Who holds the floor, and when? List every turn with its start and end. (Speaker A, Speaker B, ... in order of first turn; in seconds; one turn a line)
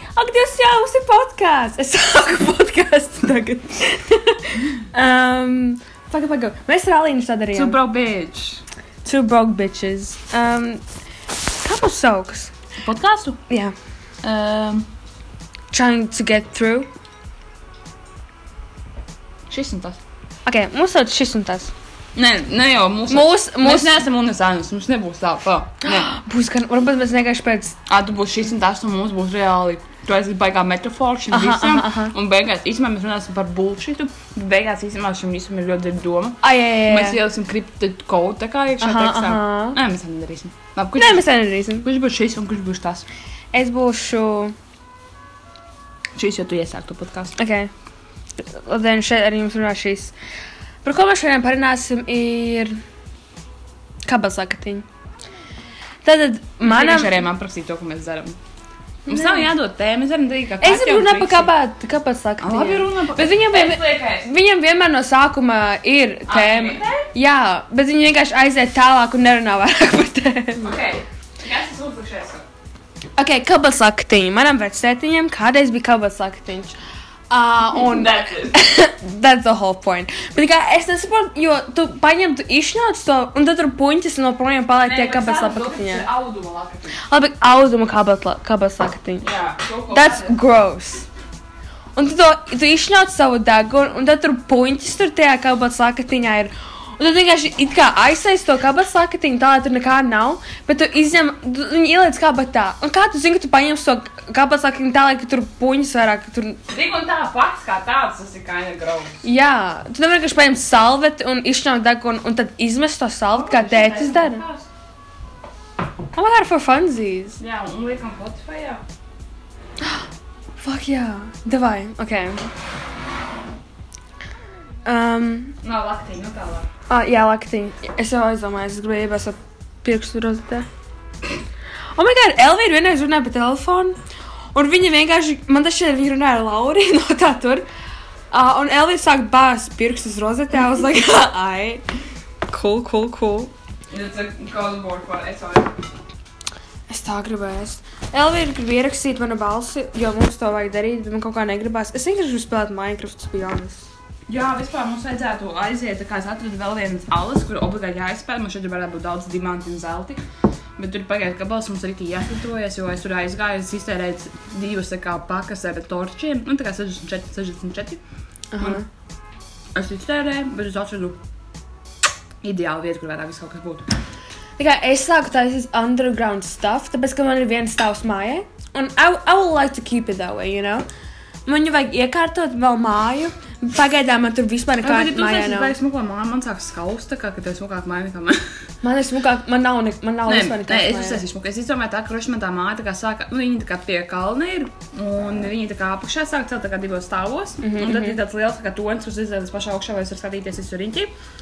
Speaker A: 0.1-7.8
Speaker B: 7.5-8.6
Speaker A: 9.0-10.8
Speaker A: 11.6-12.5
Speaker B: 12.8-13.4
Speaker A: 13.5-13.7
Speaker B: 14.2-14.9
Speaker A: 15.7-16.9
Speaker B: 19.5-20.0
Speaker A: 20.5-21.7
Speaker B: 22.1-26.1
Speaker A: 23.1-24.0
Speaker A: 25.9-27.8
Speaker B: 27.9-41.2
Speaker A: 31.3-32.1
Speaker A: 36.4-37.2
Speaker A: 38.8-39.8
Speaker A: 41.0-41.9
Speaker B: 41.8-43.0
Speaker A: 43.5-44.5
Speaker B: 46.2-47.4
Speaker A: 47.4-47.7
Speaker A: 48.4-50.1
Speaker A: 50.8-52.8
Speaker A: 54.0-54.8
Speaker A: 56.0-57.1
Speaker B: 56.6-58.4
Speaker A: 59.1-59.5
Speaker B: 59.1-61.5
Speaker A: 60.6-70.7
Speaker B: 62.4-64.3
Speaker B: 66.3-67.1
Speaker B: 70.6-72.5
Speaker A: 73.2-76.8
Speaker A: 77.3-86.0
Speaker B: 77.7-78.6
Speaker B: 84.8-87.0
Speaker A: 87.0-89.3
Speaker B: 89.2-90.4
Speaker A: 89.9-91.1
Speaker A: 92.0-106.6
Speaker B: 106.7-109.2
Speaker A: 109.2-114.4
Speaker B: 113.3-114.7
Speaker A: 116.1-117.4
Speaker B: 117.4-118.8
Speaker A: 120.6-122.5
Speaker A: 124.8-125.5
Speaker B: 125.6-126.7
Speaker A: 126.9-130.7
Speaker A: 131.9-133.9
Speaker A: 134.5-137.6
Speaker A: 138.3-141.8
Speaker A: 142.5-143.5
Speaker B: 143.9-145.7
Speaker A: 146.9-153.9
Speaker B: 154.3-160.2
Speaker B: 160.8-168.0
Speaker A: 168.5-168.8
Speaker B: 169.7-171.2
Speaker B: 172.4-173.9
Speaker A: 174.6-180.8
Speaker A: 181.4-185.7
Speaker B: 184.8-188.4
Speaker A: 188.8-191.2
Speaker B: 190.2-201.1
Speaker A: 197.6-198.2